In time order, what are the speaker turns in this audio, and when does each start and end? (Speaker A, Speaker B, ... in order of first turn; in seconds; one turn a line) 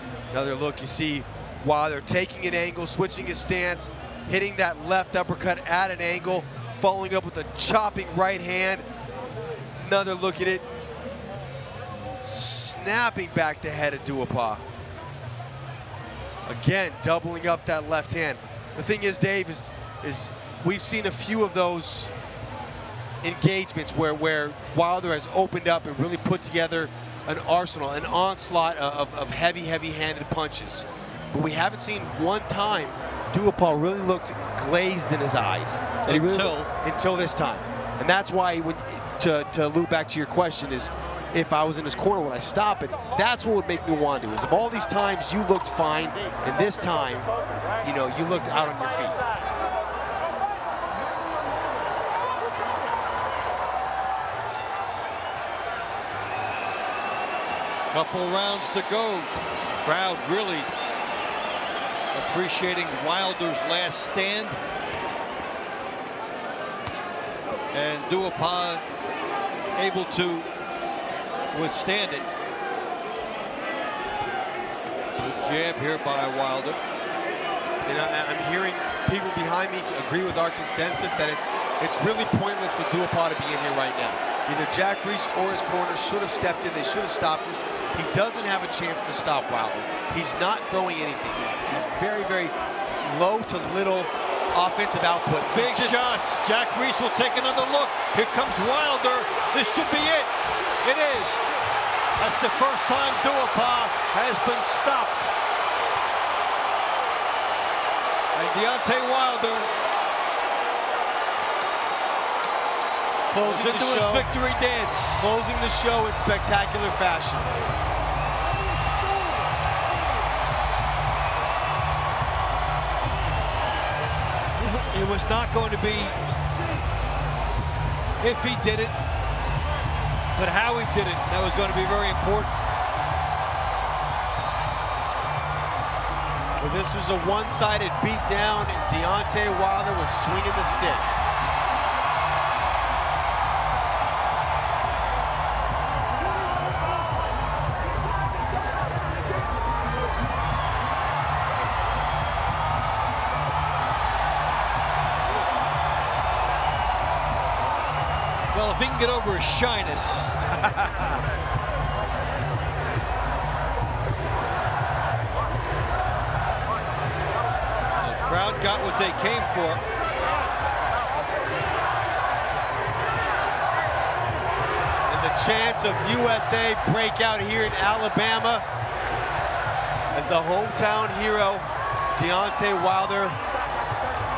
Speaker A: 0.3-8.9
Speaker A: 9.8-10.7
Speaker A: 12.2-14.6
Speaker A: 16.5-22.1
Speaker A: 23.2-49.2
Speaker B: 36.1-36.7
Speaker B: 57.9-59.3
Speaker B: 59.8-60.7
Speaker B: 62.1-64.6
Speaker B: 67.7-68.8
Speaker B: 69.8-70.5
Speaker B: 71.5-72.3
Speaker B: 75.2-76.8
Speaker A: 77.8-96.0
Speaker B: 95.5-101.5
Speaker B: 102.2-105.3
Speaker B: 108.3-109.7
Speaker A: 113.3-114.3
Speaker B: 113.4-115.3
Speaker A: 115.1-117.5
Speaker B: 124.5-126.2
Speaker B: 128.2-128.9
Speaker B: 130.4-132.5
Speaker A: 136.6-141.1
Speaker B: 158.5-160.3
Speaker A: 160.5-161.2
Speaker B: 168.0-169.8
Speaker A: 175.1-178.7
Speaker A: 180.1-183.4